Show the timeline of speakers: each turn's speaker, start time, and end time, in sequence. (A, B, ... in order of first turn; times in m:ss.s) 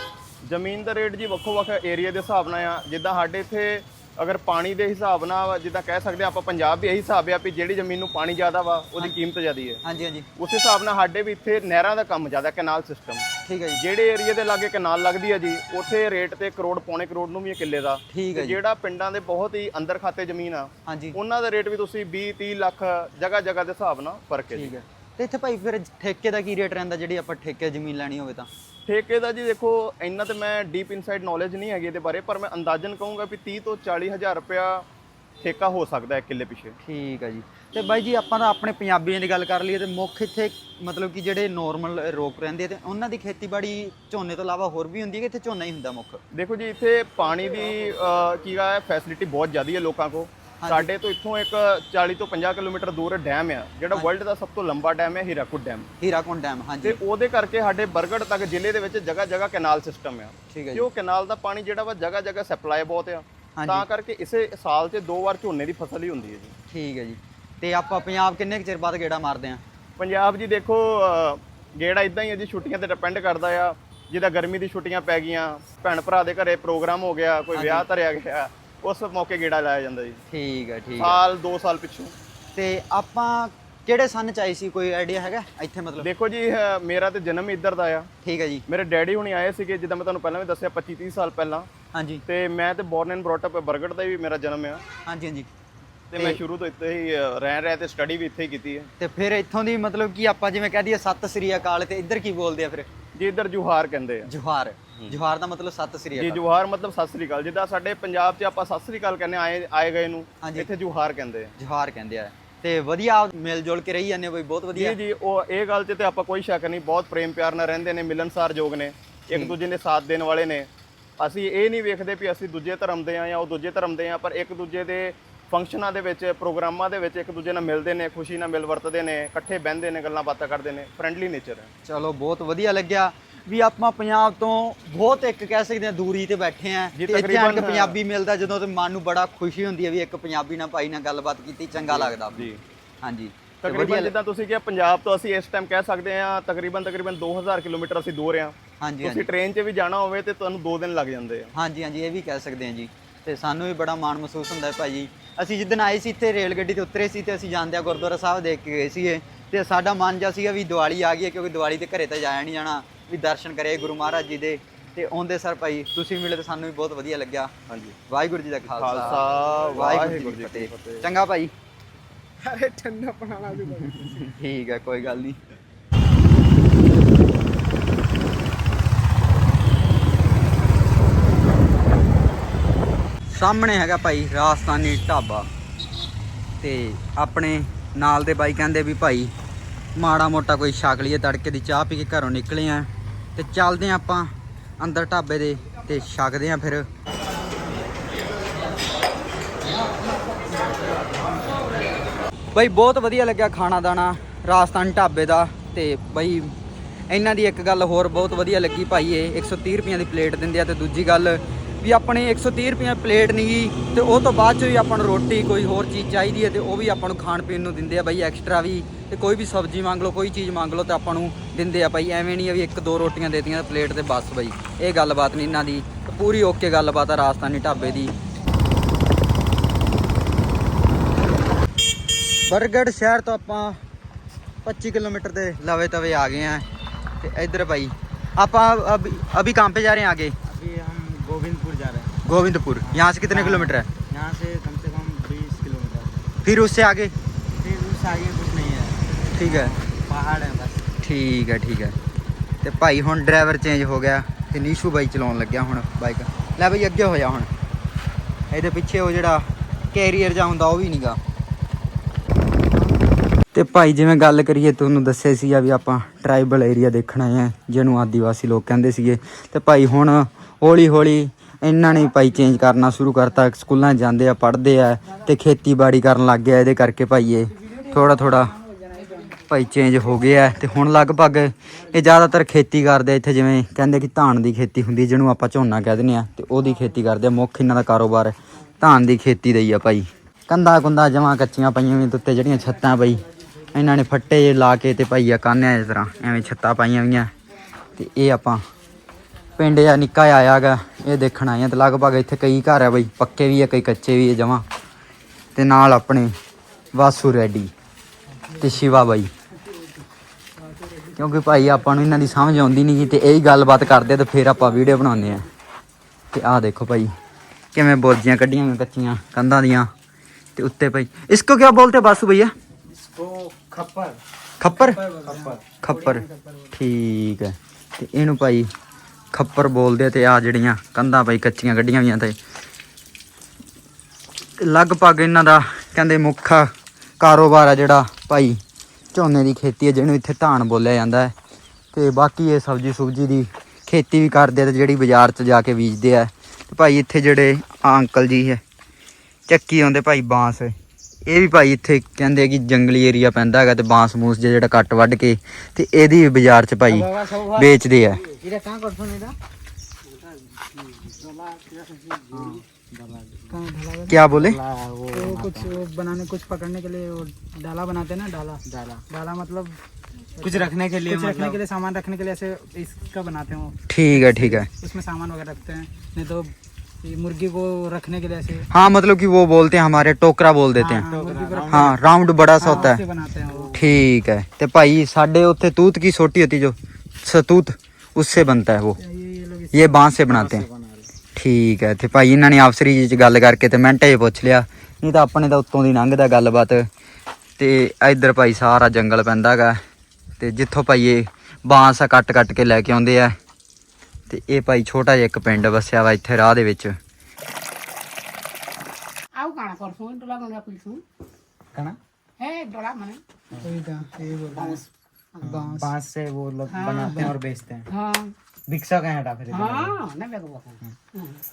0:00.5-0:09.8 A
0:09.8-0:10.3 B
0:10.4-0:13.2 A
0:13.4-0:13.8 B
0:13.8-0:24.7 A
0:18.1-0:18.6 B
0:20.9-0:21.2 B
0:24.5-0:28.5 B
0:28.9-0:34.8 A
0:35.4-0:36.8 A
0:36.8-0:46.2 B
0:46.3-0:55.9 A
0:50.6-0:50.9 B
0:56.0-0:57.0 B
0:56.8-1:06.5 A
1:00.5-1:00.9 B
1:03.6-1:03.9 B
1:06.7-1:09.6 B
1:10.0-1:20.2 A
1:17.5-1:17.9 B
1:20.3-1:21.2 B
1:21.0-1:22.1 A
1:22.6-1:26.1 B
1:26.0-1:28.1 A
1:28.2-1:28.6 B
1:28.7-1:31.7 A
1:31.9-1:32.2 B
1:32.3-1:34.8 A
1:35.1-1:35.5 B
1:36.1-1:38.9 A
1:39.0-1:42.9 B
1:43.2-1:44.3 A
1:44.3-1:46.4 B
1:46.2-1:51.5 A
1:50.4-1:50.7 B
1:51.6-1:55.0 B
1:54.7-2:11.7 A
2:11.8-2:22.5 B
2:16.9-2:18.0 A
2:21.8-2:22.6 A
2:23.0-2:24.1 B
2:23.6-2:31.5 A
2:28.8-2:29.3 B
2:31.6-2:47.5 B
2:47.7-2:48.0 A
2:48.1-2:51.5 B
2:48.7-2:51.0 A
2:52.5-2:54.1 C
2:53.7-2:55.4 B
3:03.3-3:05.5 B
3:06.6-3:09.3 B
3:10.0-3:16.9 B
3:22.5-3:26.5 B
3:27.1-3:48.2 B
3:52.5-3:53.8 B
3:54.6-3:56.6 B
3:57.2-4:00.4 B
4:00.4-4:02.2 C
4:02.3-4:03.9 B
4:02.8-4:06.4 C
4:06.4-4:07.2 B
4:07.6-4:10.9 C
4:09.4-4:09.7 B
4:11.0-4:12.0 B
4:12.6-4:17.5 B
4:18.5-4:21.2 B
4:23.5-4:38.5 B
4:37.6-4:39.4 D
4:39.5-4:53.2 B
4:53.7-4:57.3 B
4:58.0-4:58.6 B
4:59.6-5:04.6 B
5:05.6-5:06.3 B
5:06.9-5:07.7 B
5:08.6-5:09.3 B
5:11.2-5:15.5 B
5:16.3-5:17.1 B
5:17.7-5:19.9 B
5:20.6-5:22.5 B
5:23.0-5:24.2 C
5:24.6-5:25.0 B
5:24.8-5:26.7 D
5:25.1-5:25.6 C
5:25.8-5:28.7 B
5:29.3-5:32.4 B
5:34.6-5:38.6 B
5:39.1-5:41.3 B
5:41.9-5:48.6 B
5:49.5-5:50.7 B
5:51.3-5:58.3 B
5:56.9-5:57.7 C
5:58.3-5:59.4 C
6:02.1-6:03.5 C
6:03.5-6:04.2 D
6:04.1-6:04.6 B
6:04.3-6:05.7 C
6:05.1-6:09.8 D
6:08.7-6:09.0 C
6:10.4-6:16.5 D
6:10.4-6:11.6 C
6:13.9-6:14.7 B
6:17.0-6:18.7 D
6:18.7-6:21.1 B
6:20.8-6:22.0 C
6:20.8-6:22.0 D
6:21.7-6:23.0 B
6:22.6-6:23.7 D
6:23.7-6:29.0 B
6:29.0-6:30.1 D
6:29.7-6:30.6 B
6:30.3-6:31.1 C
6:31.4-6:36.9 B
6:37.6-6:39.8 B
6:40.4-6:43.4 B
6:44.3-6:47.0 B
6:49.4-6:51.0 E
6:52.4-6:53.2 E
6:53.6-6:54.9 D
6:55.4-6:57.9 C
6:55.5-6:55.9 D
6:56.7-6:57.3 E
6:57.9-6:58.3 E
6:58.7-7:00.0 C
6:59.5-7:01.4 E